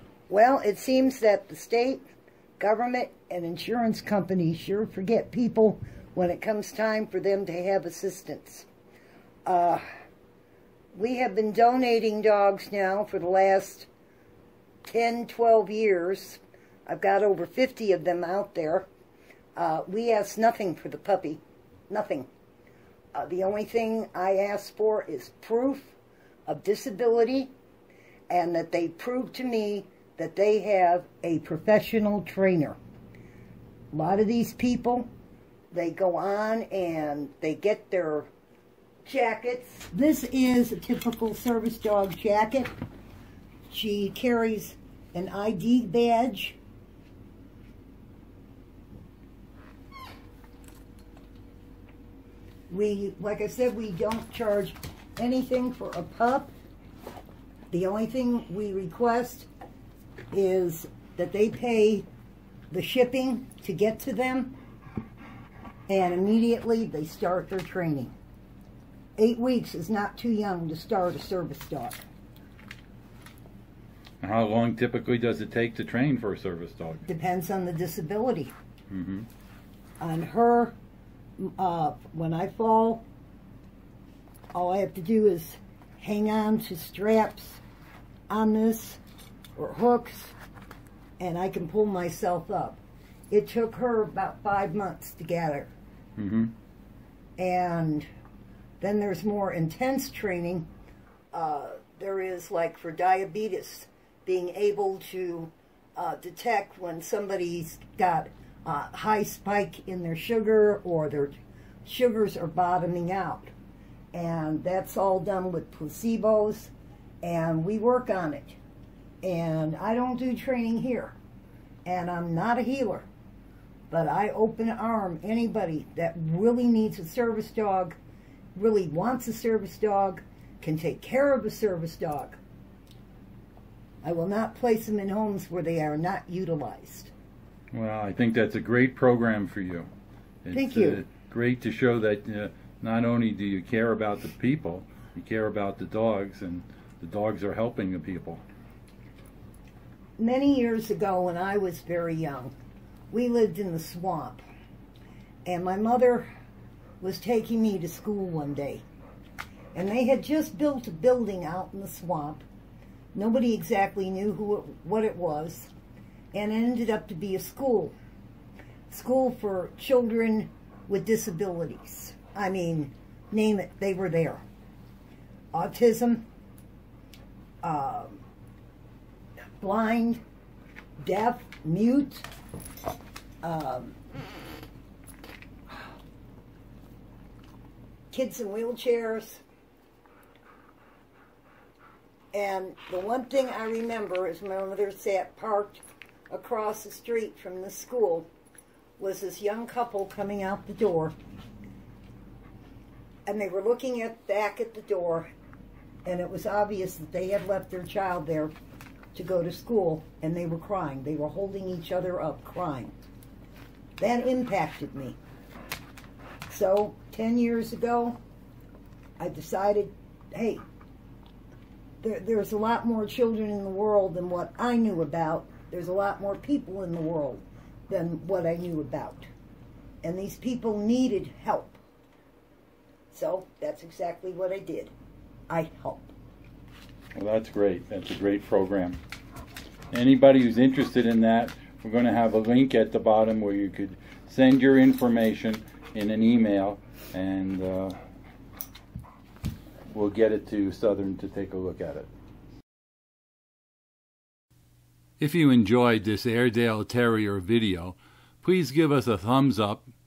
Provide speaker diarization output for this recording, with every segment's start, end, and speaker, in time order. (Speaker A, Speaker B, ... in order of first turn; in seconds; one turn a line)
Speaker A: 0.3-2.0
Speaker A: 2.6-8.7
Speaker A: 9.4-9.8
Speaker A: 10.9-13.9
Speaker A: 14.8-18.9
Speaker A: 19.6-22.3
Speaker A: 23.1-27.5
Speaker A: 28.3-32.8
Speaker A: 33.9-35.1
Speaker A: 35.7-38.3
Speaker A: 39.0-42.7
Speaker A: 43.7-46.6
Speaker A: 52.7-56.5
Speaker A: 57.7-59.5
Speaker A: 60.3-62.0
Speaker A: 62.7-64.5
Speaker A: 65.9-68.1
Speaker A: 69.2-72.0
Speaker B: 74.2-77.0
Speaker A: 77.0-78.5
Speaker B: 78.9-79.3
Speaker A: 80.0-80.7
Speaker A: 81.4-83.0
Speaker A: 84.5-87.6
Speaker A: 88.3-89.0
Speaker A: 89.6-90.3
Speaker A: 91.2-95.7
Speaker B: 96.2-96.5
Speaker A: 97.4-98.1
Speaker A: 98.8-100.7
Speaker A: 101.3-113.5
Speaker A: 114.1-118.6
Speaker A: 119.2-121.2
Speaker A: 121.8-123.1
Speaker A: 123.9-128.0
Speaker A: 128.5-132.4
Speaker A: 134.0-137.1
Speaker B: 137.7-139.9
Speaker B: 140.4-148.4
Speaker A: 140.5-141.0
Speaker A: 150.2-152.5
Speaker A: 153.1-154.4
Speaker A: 155.4-156.3
Speaker A: 157.0-158.8
Speaker A: 159.7-162.4
Speaker A: 163.1-165.7
Speaker A: 166.3-167.9
Speaker A: 168.9-174.4
Speaker A: 175.5-176.2
Speaker A: 177.6-178.2
Speaker A: 179.6-180.2
Speaker A: 181.0-182.3
Speaker A: 183.4-184.0
Speaker A: 188.1-189.4
Speaker A: 192.3-198.3
Speaker A: 199.0-201.1
Speaker A: 203.2-205.3
Speaker A: 206.0-208.5
Speaker A: 209.1-212.9
Speaker A: 214.0-215.2
Speaker A: 216.5-218.2
Speaker A: 219.2-220.6
Speaker A: 222.0-229.3
Speaker A: 230.0-231.8
Speaker A: 233.1-234.9
Speaker A: 235.5-236.1
Speaker B: 237.2-239.0
Speaker B: 239.9-247.9
Speaker B: 249.9-252.1
Speaker B: 255.2-259.9